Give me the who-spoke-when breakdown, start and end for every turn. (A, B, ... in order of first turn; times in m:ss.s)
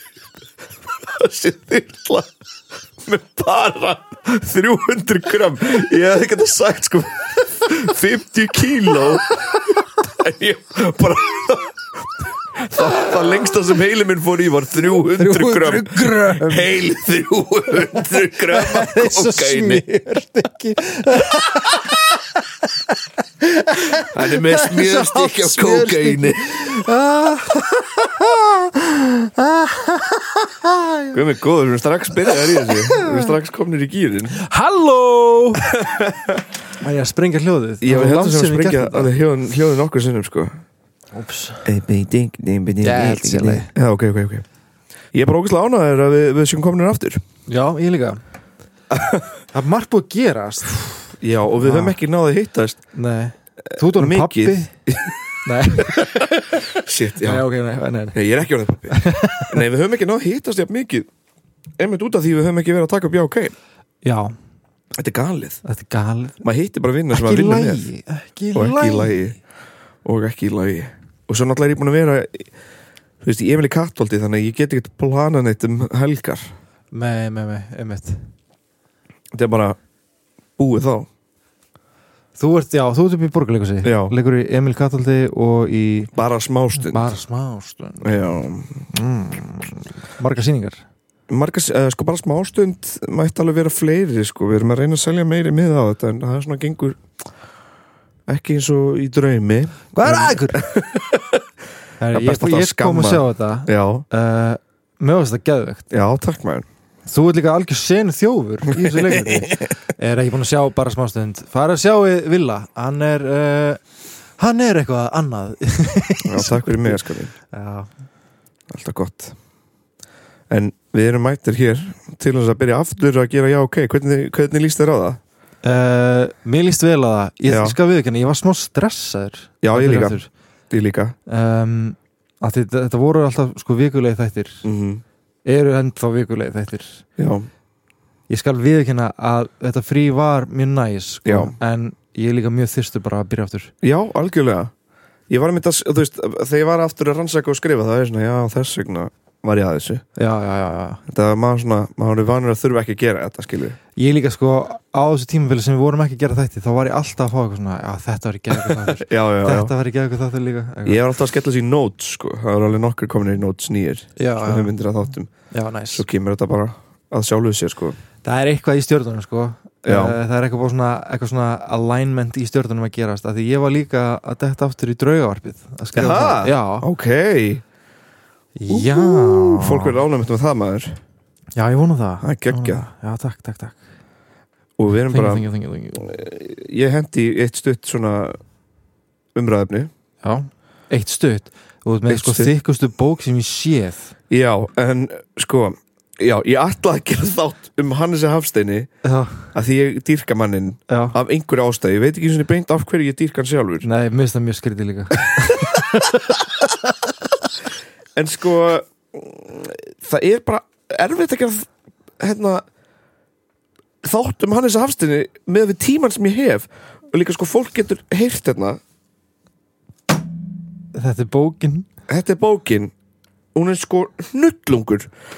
0:01.0-0:02.3 A
0:03.0-0:11.8 A
0:12.5-0:19.8 A
0:15.1-0:16.8 B
0:17.9-0:31.2 B
0:24.0-0:26.5 A
0:31.1-0:34.4 A
0:32.2-0:33.3 B
0:34.3-0:35.7 B
0:35.6-0:36.5 A
0:36.8-0:39.1 B
0:37.8-0:40.6 A
0:41.1-0:41.7 B
0:41.6-0:44.4 A
0:42.8-0:43.7 B
0:45.1-0:47.2 A
0:47.5-0:48.2 B
0:48.9-0:49.3 A
0:49.5-0:52.0 B
0:51.2-0:52.8 A
0:52.9-0:54.7 B
0:53.7-0:57.5 A
0:55.4-0:58.2 B
0:58.1-1:01.1 A
0:58.9-0:59.6 B
1:01.8-1:03.5 A
1:04.0-1:04.3 B
1:05.0-1:05.6 A
1:05.6-1:06.4 B
1:06.4-1:07.9 A
1:07.1-1:09.2 B
1:08.5-1:09.4 A
1:10.0-1:12.5 A
1:13.2-1:16.5 A
1:16.9-1:18.3 B
1:19.3-1:19.8 A
1:20.6-1:21.1 A
1:22.4-1:26.1 B
1:23.8-1:24.1 A
1:26.1-1:27.1 A
1:26.8-1:30.8 B
1:28.0-1:28.9 A
1:31.3-1:37.0 A
1:38.3-1:41.4 A
1:39.9-1:40.6 B
1:42.0-1:45.8 B
1:42.1-1:44.1 A
1:45.9-1:46.7 A
1:47.1-1:53.8 B
1:48.7-1:49.7 A
1:54.4-1:57.9 B
1:56.2-1:57.3 A
1:58.7-1:59.4 A
2:00.5-2:05.2 A
2:05.6-2:10.3 B
2:07.5-2:07.8 A
2:09.6-2:11.2 A
2:11.3-2:14.6 B
2:14.6-2:15.0 A
2:15.5-2:17.0 B
2:17.2-2:17.5 A
2:18.3-2:23.7 B
2:21.2-2:21.6 A
2:23.8-2:24.7 A
2:25.3-2:30.0 A
2:30.2-2:31.0 B
2:31.1-2:33.8 A
2:34.0-2:41.0 B
2:38.6-2:39.7 A
2:40.9-2:45.3 A
2:44.2-2:44.7 B
2:45.5-2:46.0 B
2:45.9-2:48.0 A
2:48.2-2:56.9 B
2:49.8-2:50.2 A
2:56.0-2:57.6 A
2:58.6-3:00.0 B
2:58.7-3:01.0 A
3:01.6-3:03.8 B
3:02.2-3:02.9 A
3:04.8-3:05.5 A
3:05.1-3:06.1 B
3:06.0-3:08.4 A
3:09.4-3:09.9 A
3:10.2-3:14.1 B
3:12.1-3:12.5 A
3:14.3-3:18.9 A
3:19.0-3:19.5 B
3:19.5-3:23.9 A
3:20.9-3:21.2 B
3:23.8-3:26.7 B
3:28.2-3:31.7 A
3:32.2-3:32.6 A
3:34.0-3:38.8 A
3:40.9-3:41.9 B
3:42.1-3:42.9 A
3:43.6-3:45.1 A